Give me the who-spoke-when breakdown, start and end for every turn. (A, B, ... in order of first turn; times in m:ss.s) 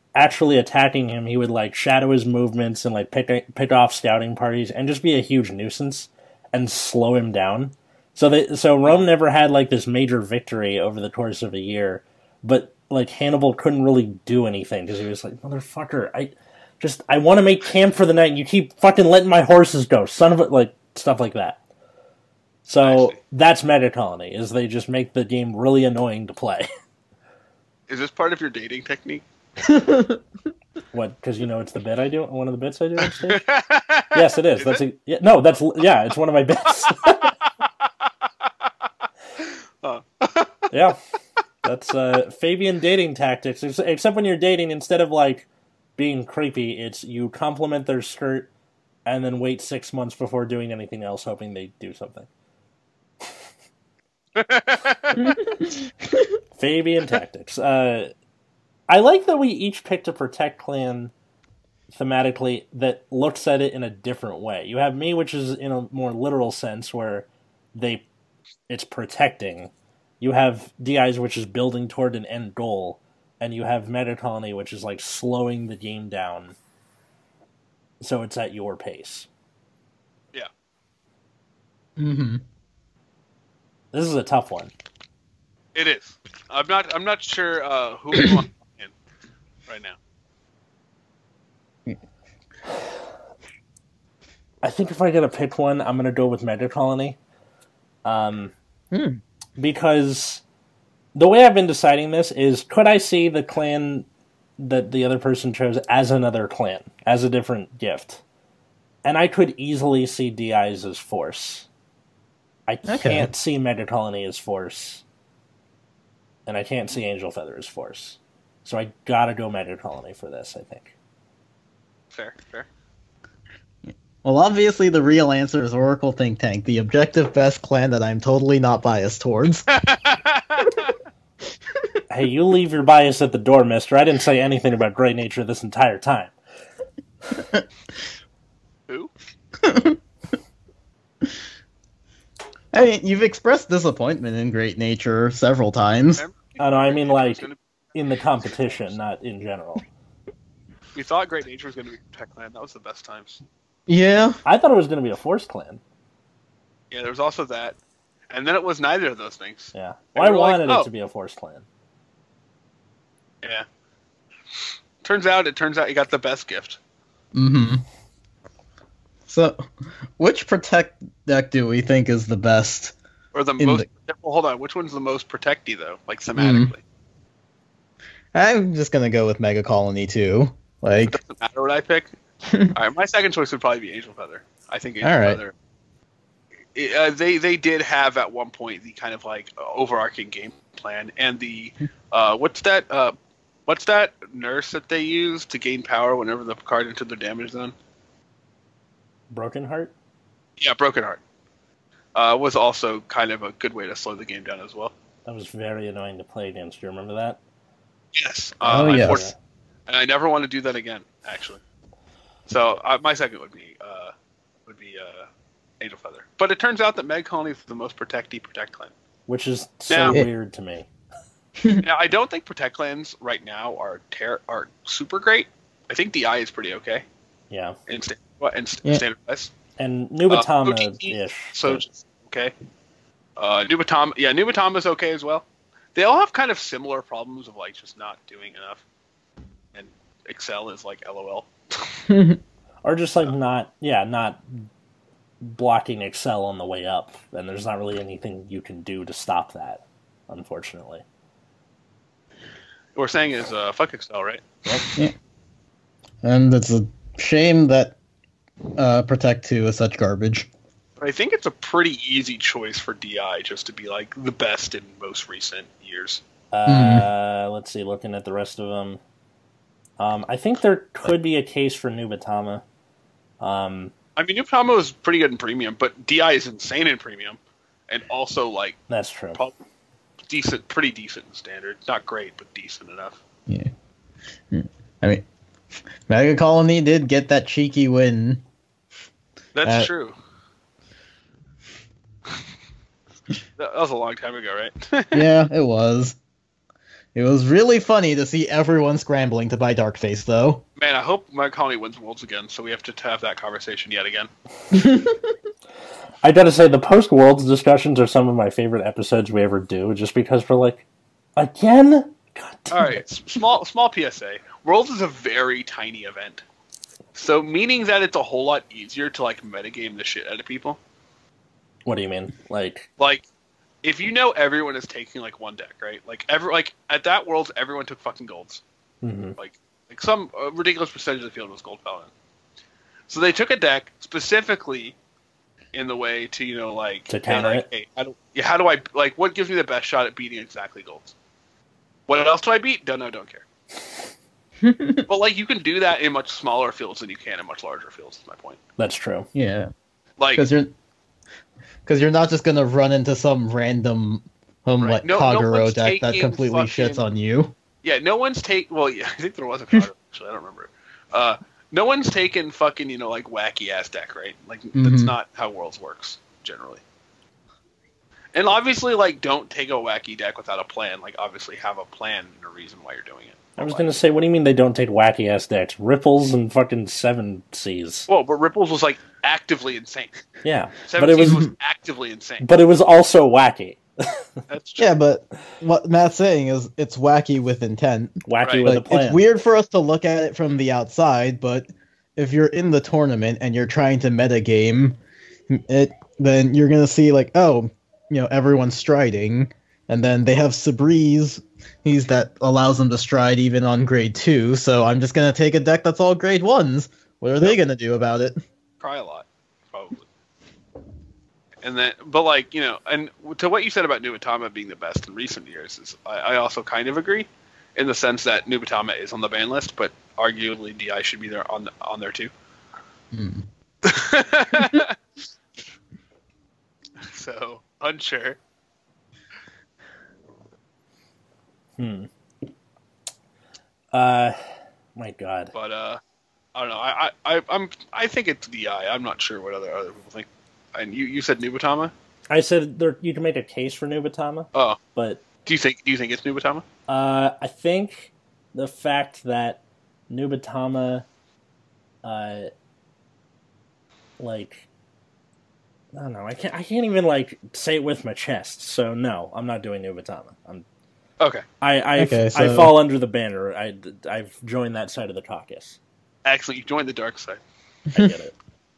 0:00.2-0:21.6 A
0:22.7-0:26.7 A
0:22.8-0:23.2 B
0:27.9-0:29.2 B
0:29.6-0:30.2 C
0:30.9-0:33.4 A
0:33.0-0:34.8 B
0:34.1-0:37.4 A
0:39.4-0:40.7 B
0:40.7-0:41.0 A
0:41.6-0:48.5 A
0:49.1-0:52.3 A
0:54.4-0:55.3 B
0:55.2-0:55.7 C
0:56.6-0:58.1 A
0:58.9-1:01.1 A
1:01.9-1:08.0 A
1:08.7-1:16.6 A
1:18.0-1:19.3 A
1:22.0-1:22.4 C
1:23.9-1:24.7 A
1:25.8-1:28.9 B
1:29.7-1:30.0 B
1:34.6-1:37.2 A
1:38.0-1:38.5 A
1:38.9-1:39.2 C
1:39.6-1:40.4 A
1:41.2-1:44.1 A
1:44.6-1:48.2 A
1:49.0-1:51.7 A
1:52.7-1:55.0 A
1:52.9-1:53.3 C
1:56.5-2:00.9 A
2:02.1-2:02.7 B
2:04.2-2:09.7 C
2:09.7-2:10.9 B
2:12.1-2:16.3 A
2:17.4-2:17.6 C
2:19.6-2:20.0 C
2:22.7-2:26.2 C
2:26.2-2:28.9 B
2:26.6-2:29.8 A
2:31.0-2:33.4 B
2:33.9-2:34.4 C
2:34.4-2:35.8 A
2:36.9-2:37.8 B
2:38.3-2:40.9 B
2:39.7-2:41.7 A
2:45.0-2:46.8 B
2:47.3-2:47.8 C
2:49.3-2:49.6 C
2:50.2-2:53.0 C
2:53.3-2:56.8 B
2:53.6-2:53.9 C
2:56.4-2:56.7 C
2:58.3-3:01.2 C
3:01.1-3:02.1 B
3:02.5-3:02.8 C
3:02.7-3:05.5 B
3:05.0-3:05.4 C
3:06.8-3:13.2 B
3:13.7-3:17.7 B
3:19.3-3:19.9 A
3:20.6-3:21.2 B
3:22.2-3:24.9 B
3:25.2-3:27.4 A
3:28.1-3:29.3 B
3:28.6-3:29.2 C
3:28.7-3:29.4 A
3:29.9-3:31.6 B
3:32.5-3:34.1 B
3:34.7-3:35.3 B
3:35.8-3:38.9 B
3:39.3-3:40.9 A
3:39.9-3:40.2 B
3:41.6-3:41.8 C
3:41.8-3:47.0 B
3:47.5-3:47.8 A
3:47.9-3:49.5 B
3:49.8-3:51.8 A
3:50.3-3:52.5 B
3:53.4-3:58.8 B
3:59.7-4:02.0 B
4:02.1-4:02.4 C
4:02.8-4:04.7 A
4:05.4-4:11.0 A
4:13.0-4:14.8 B
4:16.2-4:18.0 C
4:18.8-4:20.5 C
4:21.0-4:26.2 B
4:26.5-4:29.0 A
4:26.7-4:27.1 C
4:30.0-4:32.6 A
4:33.4-4:33.9 A
4:34.2-4:38.8 B
4:38.9-4:39.4 A
4:40.3-4:43.2 B
4:44.5-4:45.2 C
4:46.1-4:48.4 C
4:49.6-4:50.2 B
4:53.6-4:55.3 B
4:55.1-4:56.2 C
4:57.2-5:00.6 C
5:00.8-5:04.3 B
5:04.7-5:05.3 C
5:06.2-5:10.8 A
5:11.4-5:13.0 A
5:12.7-5:16.4 B
5:17.2-5:20.8 B
5:21.9-5:22.9 A
5:23.0-5:23.2 B
5:23.8-5:28.6 B
5:29.0-5:29.4 A
5:29.4-5:32.1 B
5:33.1-5:35.0 B
5:35.7-5:41.1 B
5:37.1-5:37.7 A
5:42.1-5:43.4 B
5:44.6-5:45.1 C
5:45.1-5:48.6 B
5:48.8-5:49.3 A
5:49.4-5:49.7 C
5:50.2-5:50.5 B
5:50.4-5:50.7 C
5:51.9-5:57.5 C
5:54.8-5:57.0 B
5:57.8-6:06.8 B
6:04.8-6:05.1 C
6:08.3-6:13.9 B
6:13.6-6:18.1 A
6:18.1-6:20.2 B
6:20.4-6:21.5 A
6:20.9-6:22.5 B
6:22.4-6:24.3 A
6:24.5-6:24.9 B
6:24.8-6:35.0 C
6:28.3-6:29.2 A
6:28.4-6:28.7 B
6:35.5-6:48.4 C
6:48.8-6:50.0 B
6:51.6-7:02.3 B
7:03.1-7:03.5 C
7:03.8-7:05.0 B
7:07.0-7:08.4 B
7:11.8-7:12.1 A
7:13.9-7:14.4 A
7:15.0-7:15.5 A
7:15.5-7:16.0 B
7:16.6-7:21.9 B
7:22.3-7:25.2 A
7:24.5-7:24.8 B
7:25.5-7:26.6 B
7:26.9-7:31.0 A
7:32.0-7:32.5 A
7:34.2-7:34.7 A
7:35.9-7:40.6 A
7:41.2-7:41.4 B
7:41.6-7:45.8 A
7:42.0-7:42.7 C
7:46.2-7:47.4 B
7:47.9-7:48.4 A